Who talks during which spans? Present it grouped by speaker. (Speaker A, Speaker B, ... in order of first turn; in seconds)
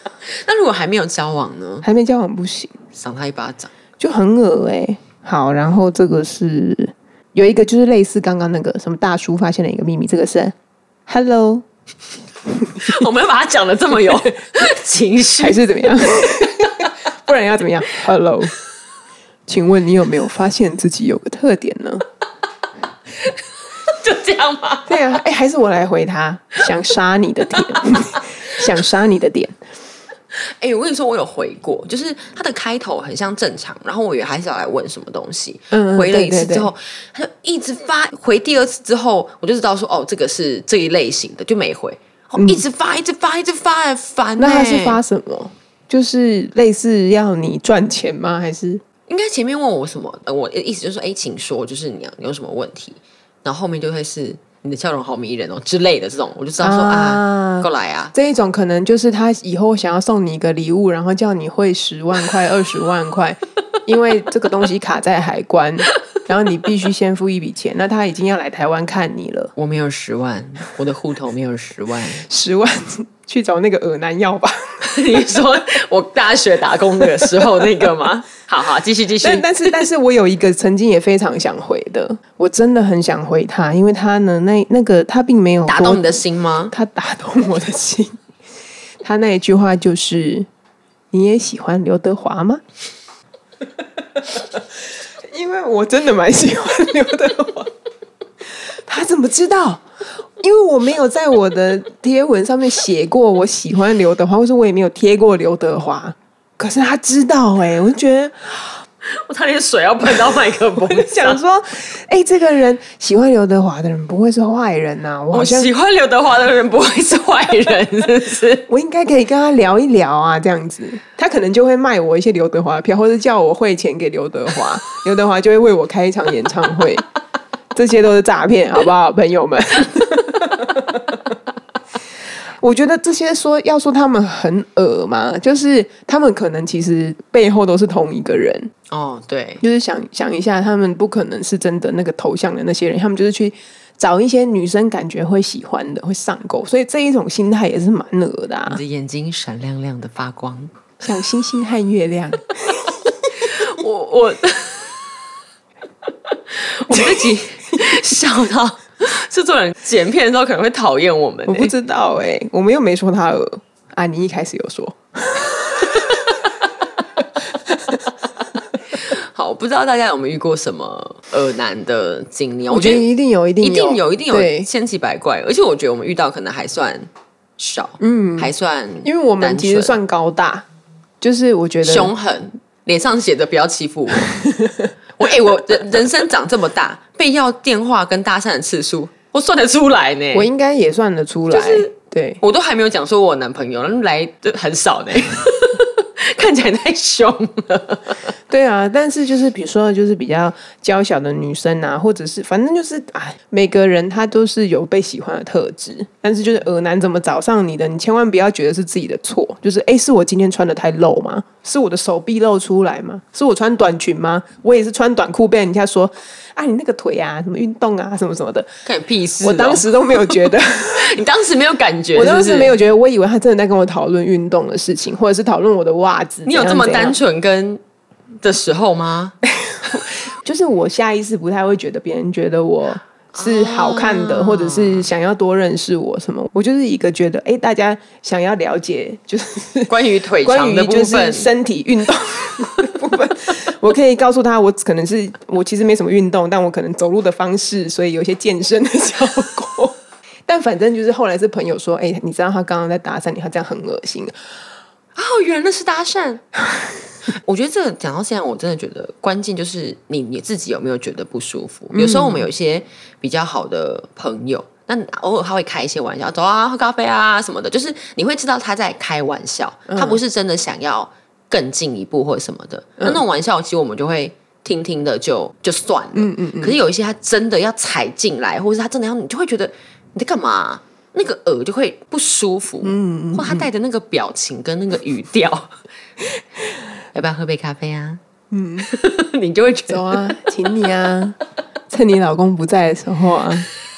Speaker A: 0.3-1.9, 2.9-3.7, 12.8-15.8, 23.2-25.0, 27.9-28.2, 30.3-45.0, 49.1-58.1, 69.5-72.2, 74.8-79.5, 85.7-86.7, 109.0-111.4, 115.3-118.7, 138.9-139.6, 148.7-150.7, 153.3-155.2, 156.5-161.7, 168.9-173.1, 173.6-180.0, 181.8-184.4, 185.2-190.5, 191.5-198.3, 218.8-220.4, 220.9-222.7, 226.4-227.8, 228.4-229.3, 233.3-235.1, 239.9-241.5, 255.2-256.4, 257.3-285.7, 287.1-288.2, 288.8-290.4
Speaker B: 1.8-2.7, 4.0-10.5, 11.1-11.6, 12.5-13.1, 15.4-18.5, 19.5-22.0, 24.9-29.5, 35.7-36.7, 42.4-42.6, 44.4-48.8, 56.6-69.5, 72.2-74.9, 77.0-77.7, 79.2-86.0, 86.7-88.2, 89.0-90.5, 91.1-92.6, 94.2-94.6, 95.3-97.7, 98.7-99.8, 100.4-108.7, 110.8-115.7, 118.7-127.0, 127.7-131.2, 132.6-138.7, 139.6-148.8, 151.0-153.1, 156.9-157.4, 161.5-166.5, 172.7-174.7, 178.0-178.5, 179.0-180.7, 181.2-182.1, 184.3-184.9, 190.3-192.4, 198.5-218.7, 219.4-221.2, 222.1-227.2, 229.6-254.3, 261.9-262.4, 269.9-270.2, 276.1-276.8, 282.8-283.7, 288.5-288.9, 289.9-291.4, 291.9-293.7